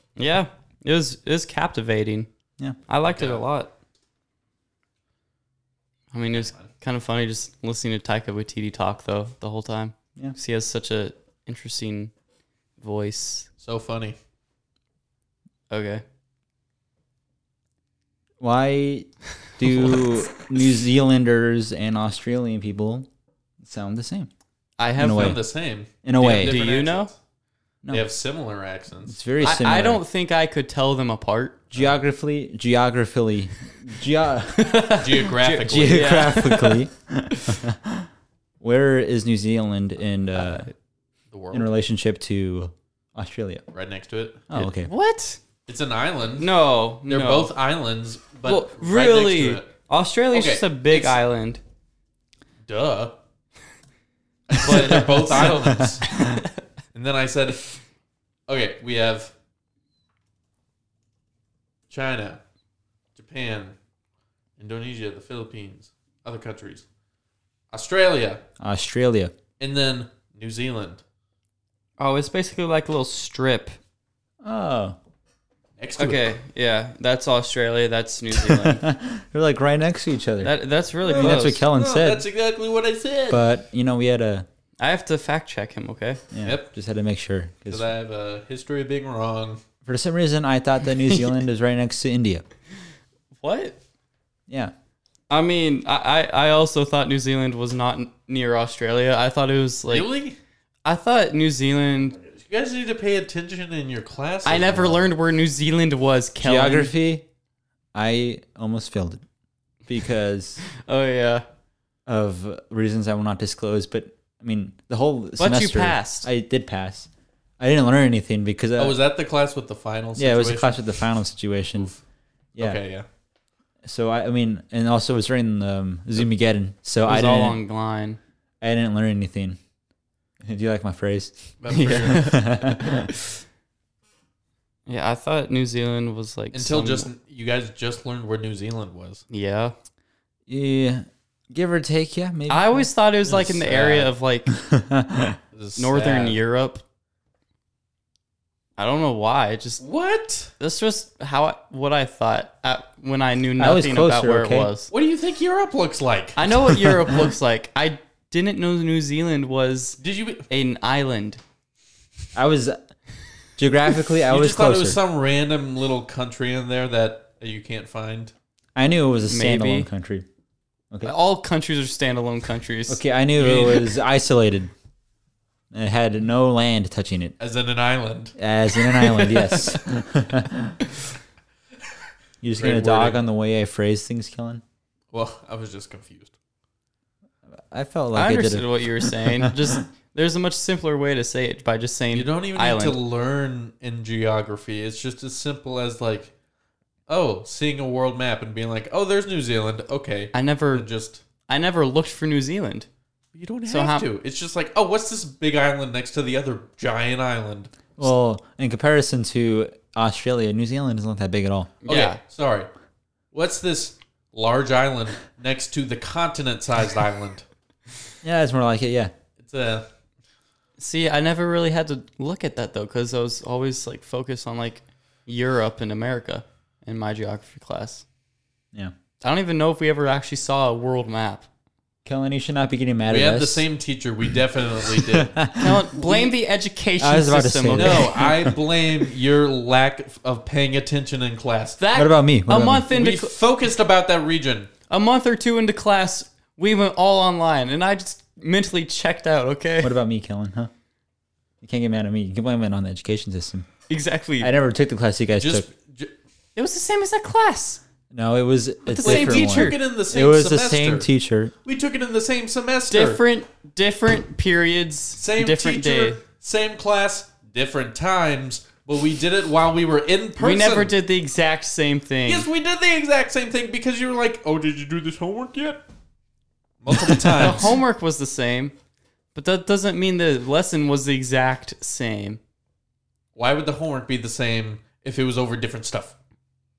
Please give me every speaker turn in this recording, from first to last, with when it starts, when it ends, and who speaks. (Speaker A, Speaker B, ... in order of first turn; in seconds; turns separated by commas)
Speaker A: 0.2-2.3, Speaker A: 2.9-3.7, Speaker B: 3.1-3.4, Speaker A: 6.1-12.1, Speaker B: 6.3-6.7, Speaker A: 12.8-13.5, Speaker B: 13.6-14.2, Speaker A: 15.7-16.0, Speaker C: 18.4-23.1, Speaker C: 23.6-24.3, Speaker A: 24.8-25.4, Speaker C: 25.0-25.4, Speaker B: 25.0-27.1, Speaker C: 26.0-26.6, Speaker A: 26.2-27.1, Speaker B: 27.9-29.3, Speaker C: 29.1-30.0, Speaker A: 29.4-31.6, Speaker C: 31.7-38.1, Speaker A: 34.6-37.6, Speaker B: 35.0-36.3, Speaker C: 38.6-40.7, Speaker B: 41.3-41.7, Speaker C: 41.5-43.6, Speaker B: 43.7-44.5, Speaker C: 44.5-44.9, Speaker A: 44.5-45.4, Speaker B: 45.7-46.5, Speaker A: 46.4-47.5, Speaker B: 47.1-49.7, Speaker A: 48.5-51.6, Speaker B: 50.3-51.2, Speaker B: 52.7-53.2, Speaker B: 54.5-56.1, Speaker A: 54.6-56.5, Speaker C: 54.7-56.4, Speaker B: 56.9-57.7, Speaker B: 58.5-59.3, Speaker B: 61.9-62.4, Speaker B: 63.1-63.8, Speaker B: 64.6-66.8, Speaker B: 67.7-68.4, Speaker C: 68.6-69.3, Speaker B: 69.6-71.0, Speaker A: 72.0-73.8, Speaker C: 74.4-75.0, Speaker B: 75.8-76.3, Speaker A: 76.0-78.8, Speaker C: 78.3-80.5, Speaker A: 80.4-81.6, Speaker B: 81.0-83.4, Speaker C: 81.2-82.3, Speaker C: 83.3-84.5, Speaker A: 84.8-86.2, Speaker C: 86.3-87.9, Speaker B: 86.4-86.7, Speaker B: 87.7-89.6, Speaker C: 89.8-92.4, Speaker A: 93.4-93.8, Speaker C: 94.5-94.7, Speaker A: 95.3-100.1, Speaker B: 99.9-100.4, Speaker A: 100.8-102.2, Speaker B: 102.2-105.1, Speaker A: 104.5-106.9, Speaker C: 106.4-107.3, Speaker C: 107.9-109.2, Speaker C: 109.9-110.6, Speaker A: 110.8-111.5, Speaker C: 112.1-117.1, Speaker A: 115.4-116.3, Speaker C: 117.6-119.0, Speaker B: 118.8-121.0, Speaker C: 120.2-121.9, Speaker B: 121.7-122.0, Speaker B: 122.6-123.1, Speaker C: 123.8-127.6, Speaker A: 127.0-128.2, Speaker C: 128.6-129.6, Speaker C: 130.4-131.5, Speaker B: 131.6-132.5, Speaker A: 131.7-133.0, Speaker C: 132.0-133.1, Speaker A: 134.9-137.1, Speaker B: 136.5-139.2, Speaker A: 139.3-139.8, Speaker C: 140.5-142.9, Speaker A: 142.5-144.5, Speaker B: 143.3-144.1, Speaker C: 144.5-145.4, Speaker B: 145.5-146.4, Speaker A: 145.8-146.8, Speaker A: 148.8-149.8, Speaker B: 149.8-150.5, Speaker A: 150.6-154.9, Speaker C: 153.6-154.7, Speaker B: 154.9-156.5, Speaker A: 156.4-161.4, Speaker B: 160.0-160.5, Speaker C: 162.3-162.8, Speaker C: 163.6-165.0, Speaker B: 164.3-168.3, Speaker C: 168.8-170.2, Speaker A: 169.3-169.9, Speaker A: 171.0-173.0, Speaker C: 172.9-174.7, Speaker B: 173.4-173.9, Speaker C: 175.7-177.3, Speaker B: 177.4-178.4, Speaker C: 178.4-180.8, Speaker A: 179.0-179.7, Speaker C: 182.4-184.6, Speaker B: 182.6-183.2, Speaker B: 185.1-186.3, Speaker C: 187.7-189.5, Speaker A: 188.2-193.0, Speaker B: 192.1-196.3, Speaker B: 197.1-201.2, Speaker A: 200.3-200.9, Speaker A: 201.5-202.9, Speaker B: 203.3-207.8, Speaker A: 203.7-204.1, Speaker C: 208.0-211.7, Speaker A: 211.8-212.2, Speaker B: 211.9-212.7, Speaker B: 213.3-217.4, Speaker C: 218.2-219.1, Speaker B: 219.4-219.9, Speaker A: 220.8-228.1, Speaker A: 229.2-231.5, Speaker C: 232.1-233.7, Speaker B: 233.1-235.4, Speaker C: 234.9-235.9, Speaker A: 235.6-238.2, Speaker B: 236.0-236.3, Speaker C: 237.0-238.6, Speaker B: 237.8-241.8, Speaker A: 241.8-243.4, Speaker C: 241.9-242.9, Speaker B: 242.9-244.7, Speaker A: 244.9-249.9, Speaker C: 249.8-250.7, Speaker C: 251.6-253.7, Speaker A: 253.9-254.5, Speaker C: 254.4-255.7, Speaker B: 255.4-256.1, Speaker A: 256.6-257.8, Speaker C: 258.1-261.5, Speaker A: 258.9-259.8, Speaker B: 259.0-261.1, Speaker B: 261.6-263.2, Speaker A: 262.9-266.2, Speaker B: 265.2-270.9, Speaker A: 270.4-272.5, Speaker B: 272.3-275.8, Speaker B: 276.8-277.8, Speaker A: 277.4-278.7, Speaker A: 279.4-282.4, Speaker B: 283.4-286.1